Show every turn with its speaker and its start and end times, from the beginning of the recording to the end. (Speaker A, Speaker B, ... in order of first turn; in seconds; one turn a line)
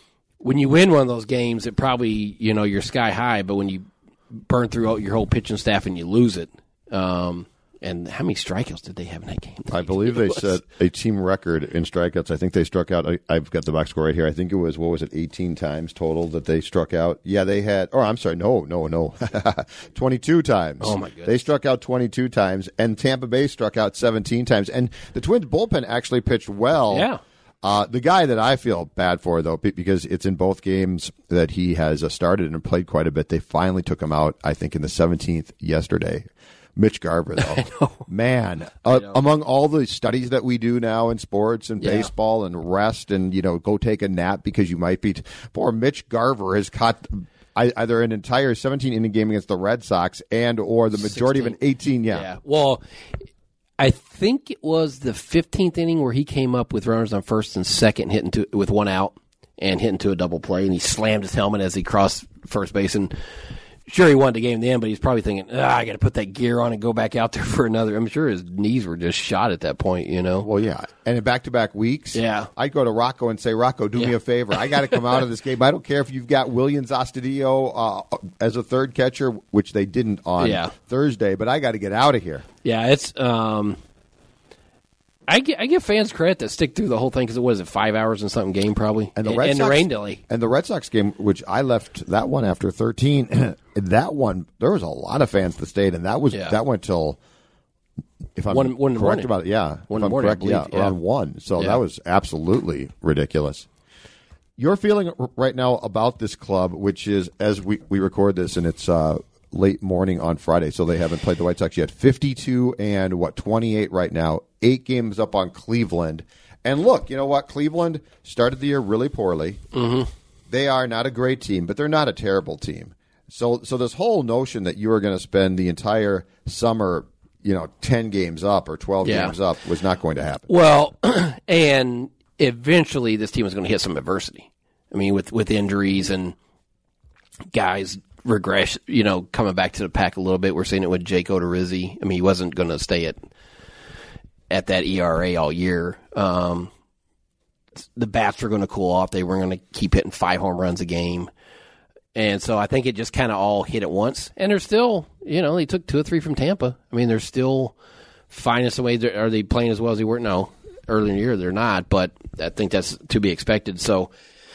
Speaker A: 0.4-10.6
Speaker B: 9.7-27.1
Speaker A: 20.8-21.4
Speaker A: 26.9-27.2
Speaker B: 27.6-52.3
Speaker A: 37.6-38.0
Speaker A: 38.9-39.2
Speaker A: 41.8-42.1
Speaker A: 50.9-51.6
Speaker A: 52.1-52.8
Speaker A: 53.8-63.2
Speaker A: 63.9-70.5
Speaker B: 70.4-82.5
Speaker A: 72.1-72.5
Speaker A: 74.7-74.9
Speaker A: 80.4-80.7
Speaker A: 82.6-83.8
Speaker A: 85.3-90.2
Speaker B: 89.2-97.2
Speaker A: 96.3-96.6
Speaker B: 98.4-103.7
Speaker A: 98.5-99.3
Speaker A: 99.9-101.0
Speaker B: 104.6-119.6
Speaker A: 119.7-120.1
Speaker B: 120.5-130.5
Speaker A: 129.0-129.4
Speaker A: 130.5-136.4
Speaker A: 137.5-143.2
Speaker A: 144.5-146.7
Speaker A: 147.8-151.3
Speaker A: 152.2-157.7
Speaker A: 158.3-164.1